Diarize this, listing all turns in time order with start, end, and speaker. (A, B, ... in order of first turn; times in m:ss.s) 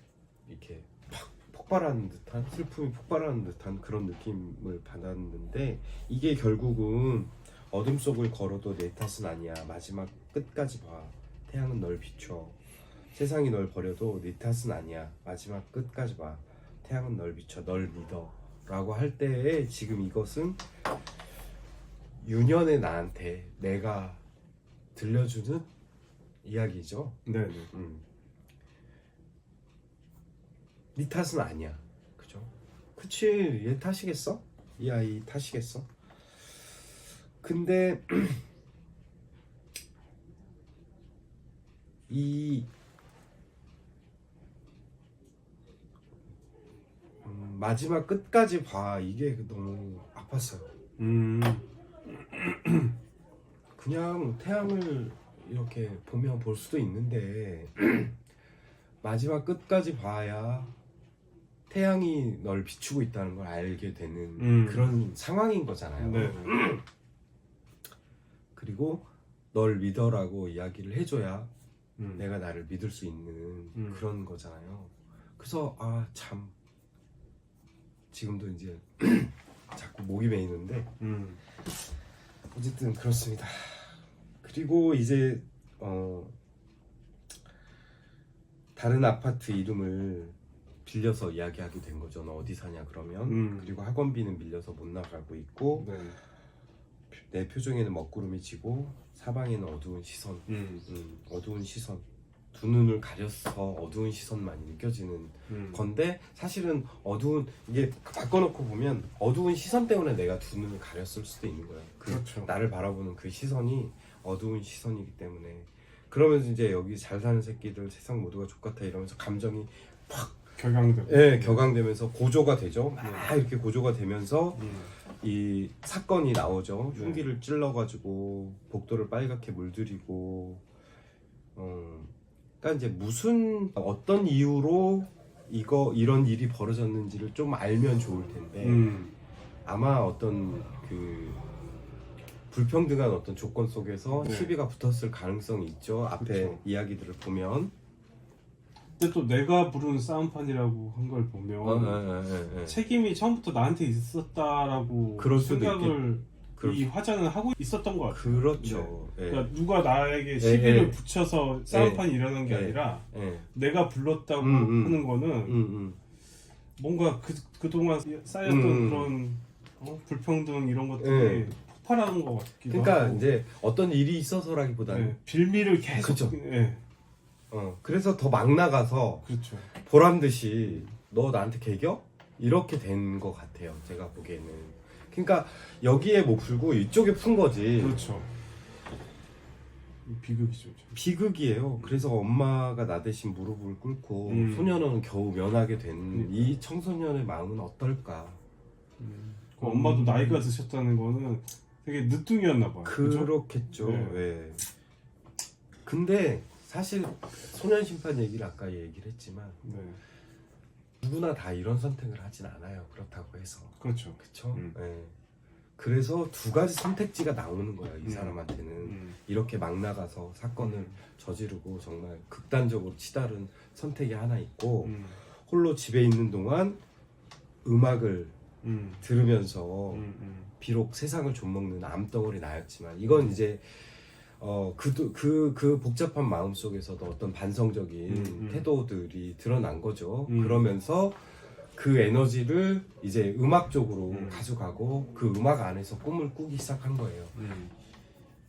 0:00.4-0:12.6 A
0:13.1-0:20.7 A
0:22.2-0:24.2 A
0:24.9-0:25.7 A
0:26.4-0:28.0 A
0:27.2-0:27.7 B
0:30.9-0:35.9 A
0:37.4-0:38.4 A
0:42.1-0:42.7 A
0:47.2-0:50.7 A
0:51.0-0:52.9 B
0:53.8-0:58.2 A
0:59.0-1:00.7 A
1:01.7-1:06.8 A
1:04.4-1:05.0 B
1:06.0-1:06.6 B
1:08.5-1:11.5 A
1:12.0-1:12.2 B
1:12.2-1:16.5 A
1:13.7-1:14.0 B
1:18.1-1:20.9 A
1:21.0-1:21.4 B
1:22.5-1:26.3 A
1:28.8-1:36.0 A
1:33.2-1:33.8 B
1:35.8-1:36.2 B
1:37.1-2:00.5 A
1:40.5-1:40.8 B
1:45.5-1:45.8 B
1:52.1-1:52.5 B
2:00.6-2:01.6 B
2:01.0-2:10.6 A
2:03.0-2:03.3 B
2:04.5-2:04.9 B
2:06.9-2:07.2 B
2:11.6-2:19.0 A
2:18.6-2:19.1 B
2:19.6-2:21.4 A
2:22.5-2:27.7 A
2:24.1-2:24.5 B
2:26.2-2:26.6 B
2:29.0-2:32.0 B
2:31.6-2:32.8 A
2:32.6-2:45.6 B
2:35.2-2:36.9 A
2:38.1-2:39.5 A
2:40.4-2:41.0 A
2:41.6-2:43.5 A
2:44.4-2:46.0 A
2:46.8-2:53.3 B
2:48.4-2:49.1 A
2:51.0-2:51.5 A
2:52.7-2:55.2 A
2:54.9-2:56.8 B
2:56.0-2:56.4 A
2:57.5-3:08.2 A
2:59.2-2:59.7 B
3:00.6-3:00.9 B
3:07.8-3:08.3 B
3:10.0-3:11.0 B
3:10.9-3:18.4 A
3:14.2-3:14.8 B
3:16.1-3:16.6 B
3:19.0-3:24.3 B
3:19.6-3:20.5 A
3:22.8-3:24.6 A
3:25.8-3:29.6 A
3:29.6-3:30.0 B
3:31.0-3:35.1 A
3:33.8-3:34.7 B
3:35.8-3:46.8 A
3:38.0-3:39.2 B
3:40.6-3:41.0 B
3:44.8-3:45.2 B
3:47.6-3:48.4 A
3:48.6-3:49.0 B
3:49.0-3:50.1 A
3:49.9-3:50.5 B
3:50.6-4:07.4 A
3:58.1-3:58.7 B
4:00.3-4:00.7 B
4:04.1-4:04.5 B
4:07.4-4:07.7 B